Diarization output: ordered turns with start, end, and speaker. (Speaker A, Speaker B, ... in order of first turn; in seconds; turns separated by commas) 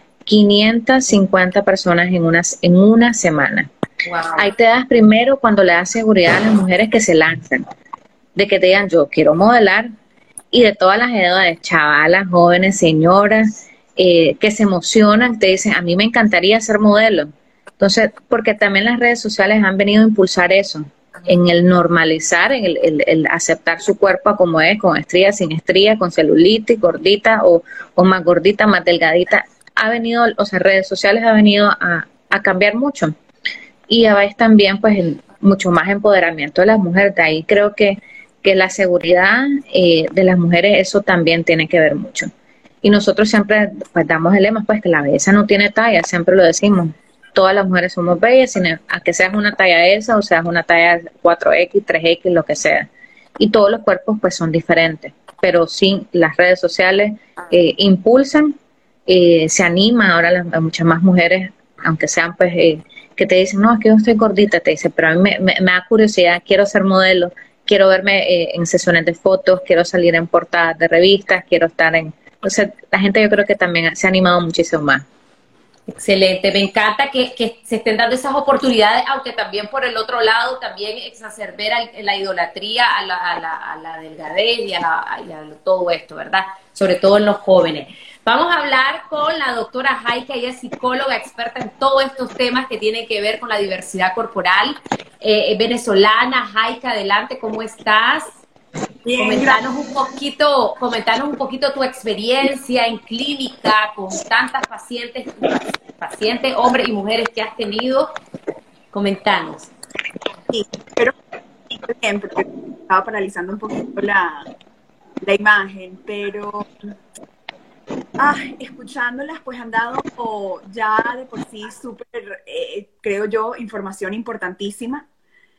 Speaker A: 0.2-3.7, Speaker B: 4.0-4.5, Speaker A: 4.4-7.7, Speaker A: 8.3-9.9, Speaker A: 10.5-33.1, Speaker A: 33.9-42.3, Speaker A: 42.8-58.5, Speaker A: 59.1-75.0, Speaker B: 75.9-98.4, Speaker C: 99.0-99.6, Speaker B: 99.2-108.1, Speaker B: 108.9-109.7, Speaker C: 110.5-111.1, Speaker C: 111.7-114.5, Speaker C: 115.2-116.7, Speaker C: 118.2-125.0